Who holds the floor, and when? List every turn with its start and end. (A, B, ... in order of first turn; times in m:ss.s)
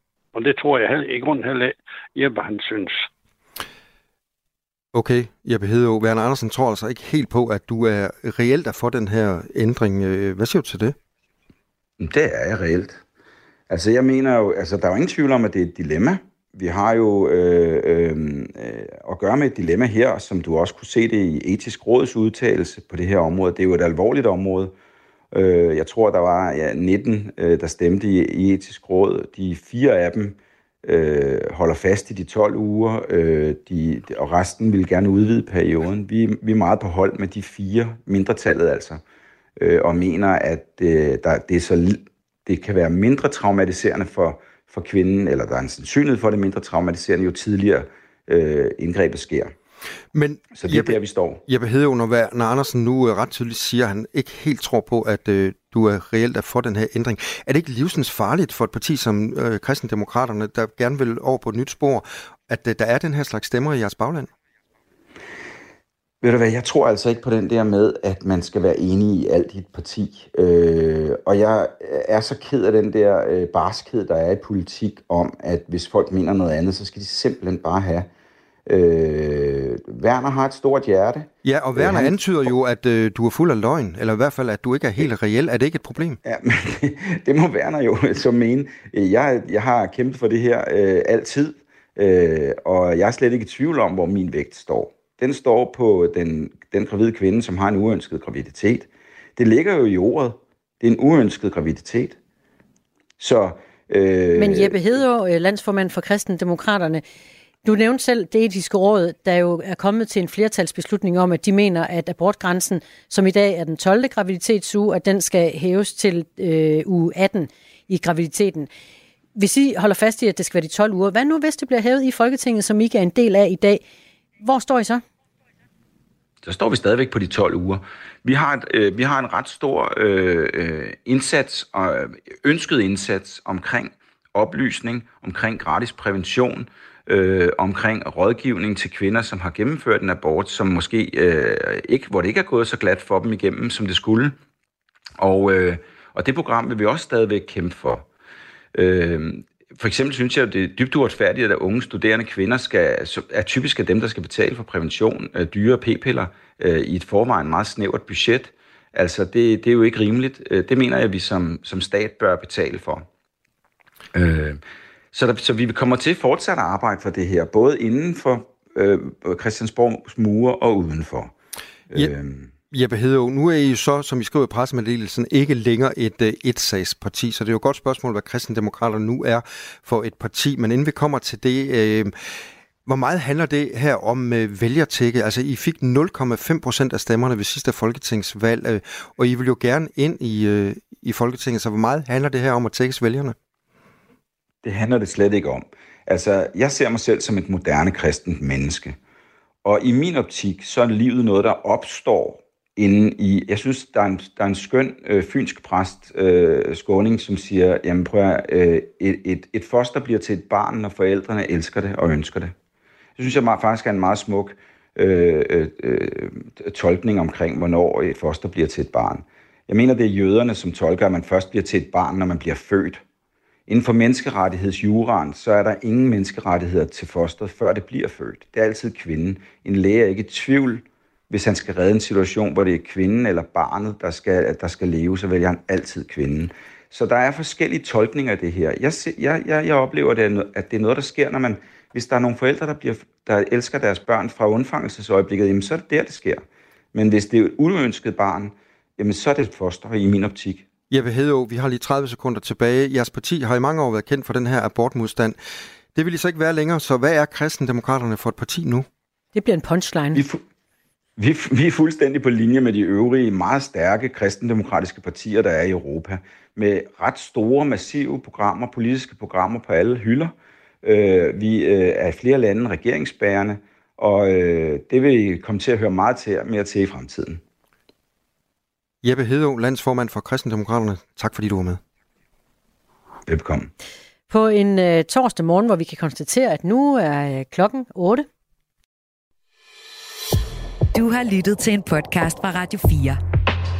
0:00.3-0:03.1 A
0:04.9-0:11.0 B
0:12.0-0:13.0 C
0:13.7-0:24.7 C
0:25.3-0:39.0 C
0:39.6-0:49.5 C
0:50.1-1:04.3 B
0:50.5-0:51.4 C
1:06.2-1:18.1 C
1:18.7-1:22.5 C
1:21.4-1:26.2 B
1:26.2-1:42.2 C
1:43.2-1:44.9 C
1:44.4-1:47.0 D
1:47.6-1:58.7 D
1:59.4-2:03.8 D
2:04.4-2:05.0 D
2:06.4-2:24.4 C
2:25.2-2:28.1 C
2:28.7-2:43.1 C
2:44.1-2:44.6 C
2:45.1-2:51.3 C
2:51.9-2:52.5 C
2:52.7-3:13.4 B
3:14.6-3:19.0 C
3:19.6-3:32.5 C
3:33.2-3:43.0 C
3:43.7-4:10.7 C
4:10.9-4:15.4 B
4:15.9-4:18.9 B
4:19.3-4:20.2 D
4:20.1-4:20.4 C
4:21.2-4:37.4 C
4:39.0-4:41.8 B
4:43.3-4:43.7 C
4:44.3-4:48.3 D
4:50.9-4:53.2 E